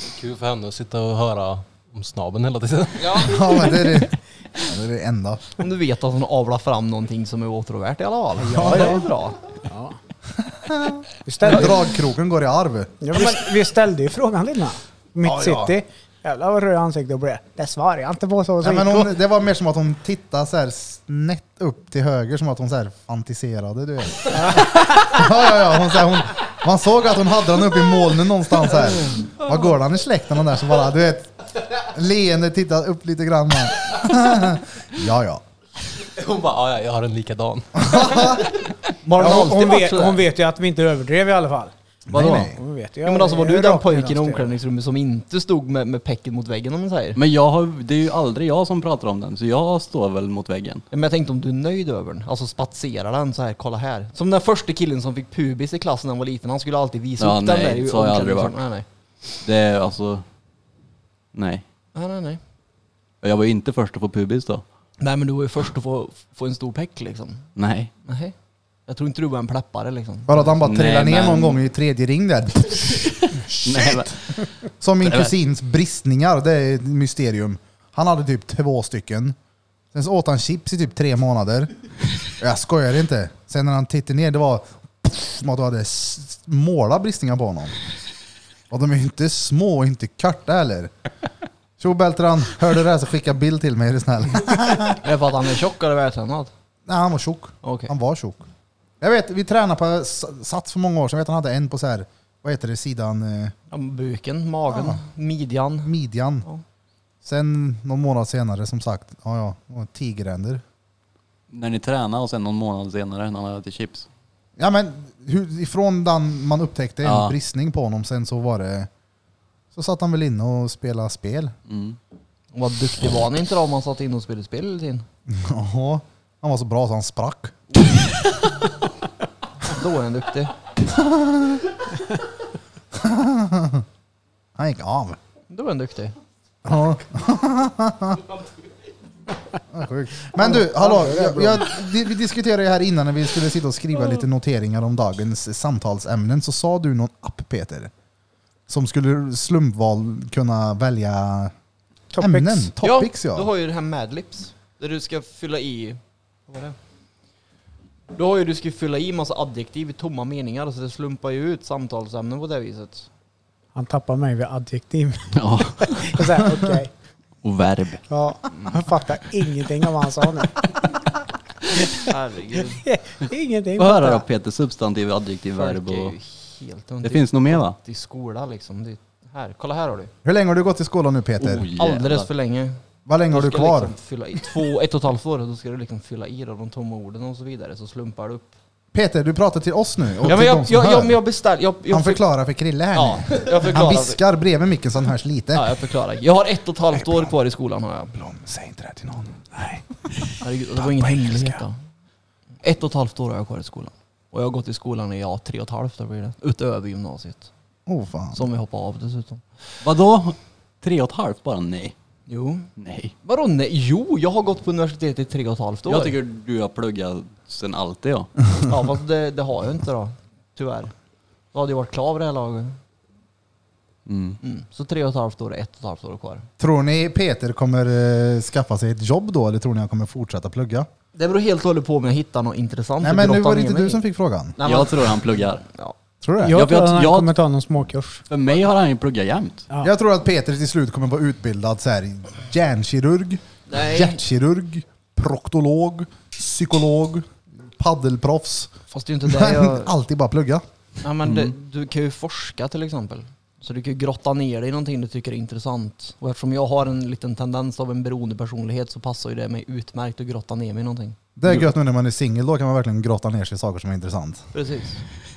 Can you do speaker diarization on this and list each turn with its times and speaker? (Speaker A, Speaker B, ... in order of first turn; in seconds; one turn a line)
Speaker A: 0.1-3.5
Speaker B: 3.0-3.5
Speaker C: 3.2-5.5
Speaker B: 5.6-9.4
Speaker D: 8.4-9.1
Speaker C: 8.5-9.0
Speaker D: 9.7-10.0
Speaker C: 10.4-13.3
Speaker D: 11.2-11.9
Speaker D: 13.0-19.1
Speaker C: 15.2-15.8
Speaker C: 18.6-35.4
Speaker A: 36.0-38.7
Speaker C: 37.8-38.5
Speaker B: 39.1-40.2
Speaker D: 39.2-44.5
Speaker C: 39.2-39.7
Speaker C: 42.1-42.6
Speaker B: 43.0-47.2
Speaker E: 47.2-50.8
Speaker B: 50.9-58.9
Speaker E: 57.2-58.6
Speaker E: 59.4-60.2
Speaker E: 61.3-61.6
Speaker B: 62.0-62.4
Speaker E: 63.2-64.6
Speaker B: 65.0-67.5
Speaker E: 67.6-67.9
Speaker B: 68.0-68.3
Speaker B: 68.9-70.5
Speaker C: 70.3-74.2
Speaker E: 70.6-71.6
Speaker E: 73.6-74.4
Speaker C: 74.8-79.4
Speaker E: 75.0-75.3
Speaker C: 79.9-81.7
Speaker C: 82.4-87.8
Speaker C: 88.7-90.9
Speaker C: 91.8-95.0
Speaker B: 94.9-96.5
Speaker C: 96.9-98.5
Speaker B: 97.6-97.9
Speaker C: 99.0-103.5
Speaker B: 103.7-105.9
Speaker C: 104.7-105.0
Speaker C: 105.8-106.5
Speaker C: 107.2-110.6
Speaker E: 111.5-114.1
Speaker C: 114.6-118.9
Speaker E: 117.0-117.3
Speaker C: 119.7-121.5
Speaker E: 121.7-122.0
Speaker B: 122.5-125.1
Speaker C: 125.3-127.6
Speaker B: 127.8-128.1
Speaker B: 129.6-130.6
Speaker C: 130.9-131.6
Speaker C: 132.9-133.8
Speaker C: 134.6-135.2
Speaker B: 135.5-136.2
Speaker C: 136.7-138.2
Speaker C: 139.7-147.9
Speaker D: 140.3-141.8
Speaker C: 148.7-151.5
Speaker D: 152.1-152.7
Speaker C: 152.2-153.5
Speaker B: 152.8-156.8
Speaker B: 158.1-163.1
Speaker D: 163.8-166.9
Speaker E: 165.3-166.6
Speaker E: 167.4-168.1
Speaker D: 168.1-170.7
Speaker B: 168.5-168.8
Speaker B: 172.0-172.8
Speaker D: 172.7-174.2
Speaker E: 173.8-176.2
Speaker B: 175.6-180.1
Speaker E: 177.0-177.8
Speaker C: 180.2-181.7
Speaker E: 181.4-182.3
Speaker B: 181.7-188.5
Speaker C: 183.1-183.9
Speaker C: 188.9-191.2
Speaker B: 190.2-192.2
Speaker C: 191.9-195.7
Speaker B: 192.9-194.2
Speaker B: 195.5-198.2
Speaker C: 197.0-197.3
Speaker C: 198.2-199.4
Speaker D: 199.6-200.3
Speaker B: 200.4-201.8
Speaker C: 200.8-201.6
Speaker B: 202.6-207.5
Speaker C: 207.9-208.4
Speaker B: 208.3-209.4
Speaker E: 209.8-211.9
Speaker B: 212.3-212.7
Speaker E: 212.8-213.1
Speaker B: 213.2-216.2
Speaker E: 215.9-218.4
Speaker B: 218.6-220.9
Speaker B: 221.5-222.8
Speaker E: 224.1-224.4
Speaker B: 224.4-226.5
Speaker C: 226.6-230.9
Speaker B: 231.1-234.0
Speaker C: 233.0-234.6
Speaker B: 234.6-236.0
Speaker E: 234.6-235.7
Speaker C: 236.2-236.6
Speaker D: 236.4-238.2
Speaker E: 236.5-237.3
Speaker E: 238.3-239.7
Speaker C: 239.8-247.3
Speaker B: 243.7-244.2
Speaker C: 247.8-248.7
Speaker B: 248.9-249.9
Speaker C: 249.2-250.6
Speaker B: 251.0-261.2
Speaker E: 251.3-251.5
Speaker C: 261.4-264.4
Speaker B: 264.5-265.0